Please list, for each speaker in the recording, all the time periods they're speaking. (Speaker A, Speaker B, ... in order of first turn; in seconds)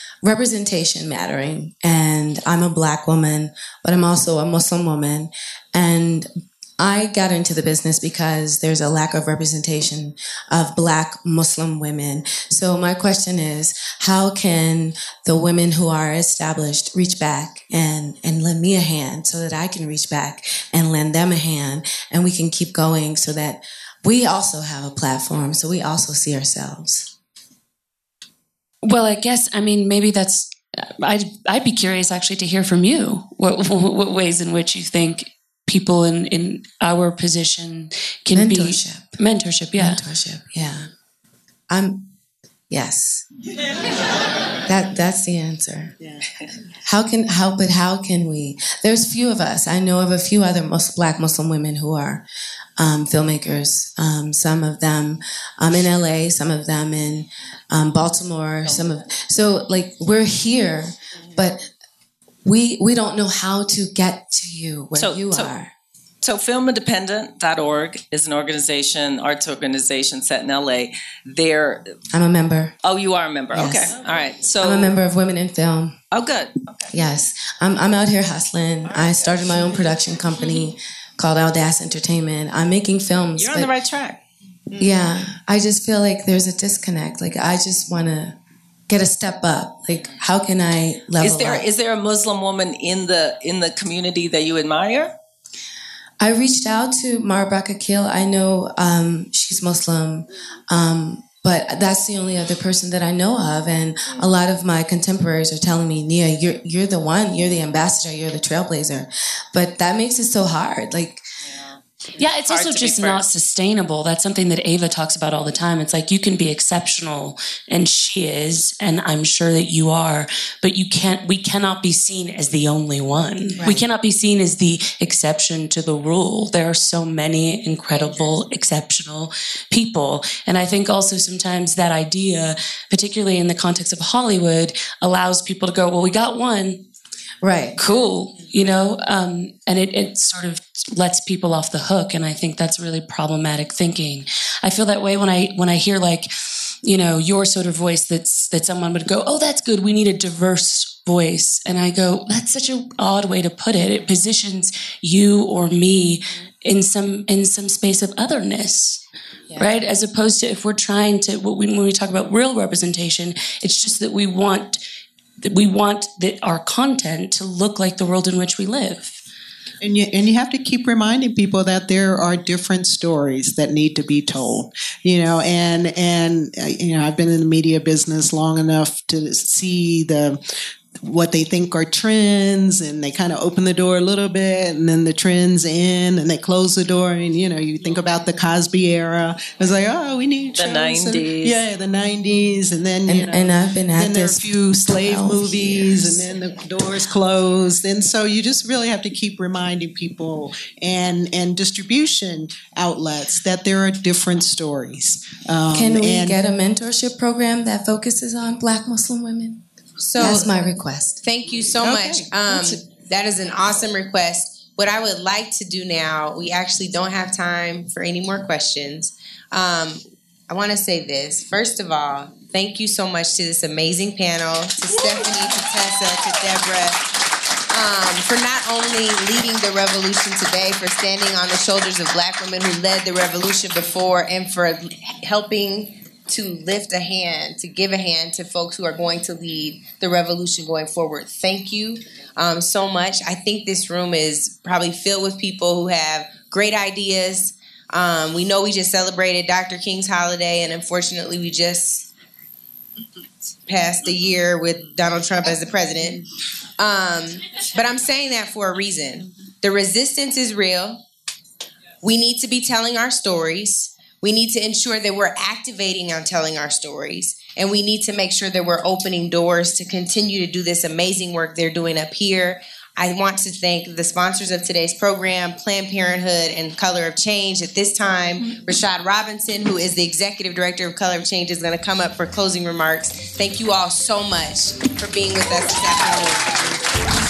Speaker A: 0.2-27.1, 38.3-39.2, 39.7-40.9, 41.7-42.1, 42.7-43.2, 44.6-46.0, 46.8-52.2, 52.8-61.7, 62.4-65.7, 72.1-72.7, 73.5-74.0, 74.6-76.0, 76.9-83.7, 84.8-88.4, 88.9-91.7, 96.2-111.2, 123.6-123.8, 137.4-137.8, 193.1-196.3, 205.7-209.6, 210.2-211.2
Speaker B: 28.8-40.0, 112.2-136.8, 137.8-159.0, 159.6-164.8, 165.4-169.2
Speaker C: 64.9-65.5, 66.2-71.8, 72.8-74.9, 76.1-77.0, 78.8-80.6, 83.3-84.2, 91.2-95.1, 111.6-113.2, 190.6-191.6
Speaker D: 169.8-180.4, 181.0-206.4, 211.8-212.8
Speaker E: 210.0-210.5, 211.2-227.0, 227.7-252.1, 253.7-256.2, 256.8-261.0, 262.0-286.5